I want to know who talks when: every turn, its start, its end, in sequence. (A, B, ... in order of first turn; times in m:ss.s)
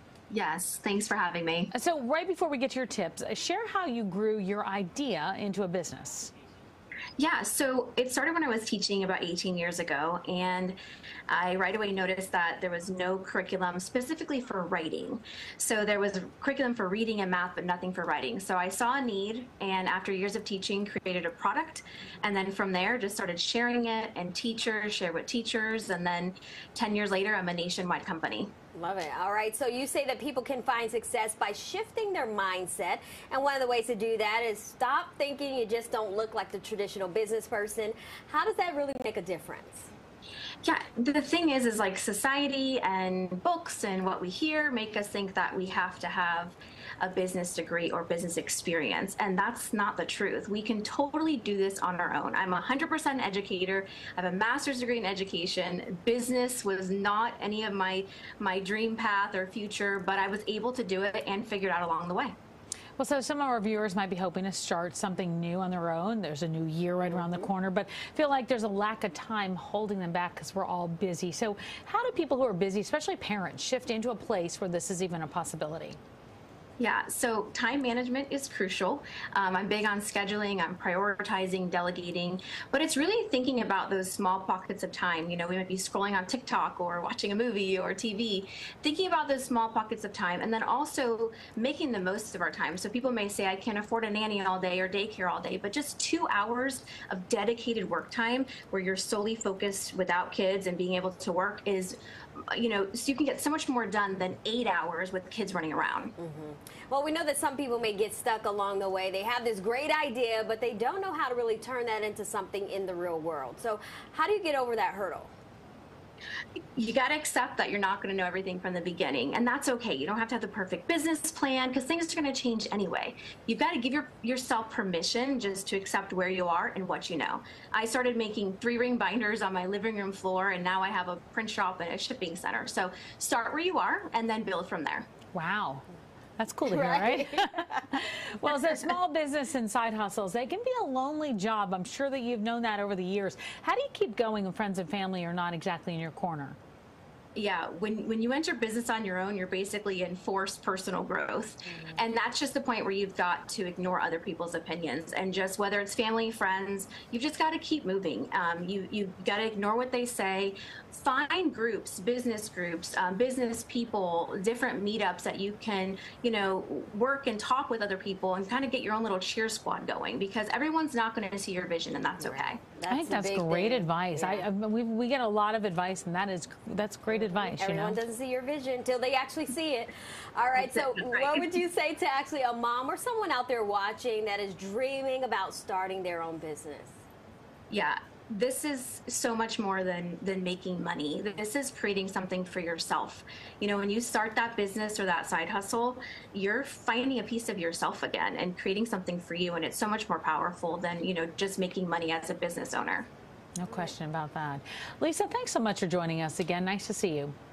0:00.3-0:01.7 A
0:01.7-0:06.3 B
0:07.2-0:10.8 A
0:11.3-0:28.5 A
0:28.8-0:39.9 C
0:40.6-1:02.4 A
1:03.0-1:16.0 B
1:07.0-1:07.5 C
1:16.8-1:42.0 A
1:42.5-1:46.1 A
1:46.2-1:55.3 C
1:56.8-2:15.1 A
2:15.3-2:15.8 B
2:16.4-2:26.6 B
2:16.7-2:17.9 C
2:27.4-2:52.6 A
2:52.2-2:54.5 C
2:52.9-2:58.0 B
2:57.1-3:07.0 C
3:00.6-3:01.5 A
3:07.7-3:23.1 A
3:23.6-3:27.4 B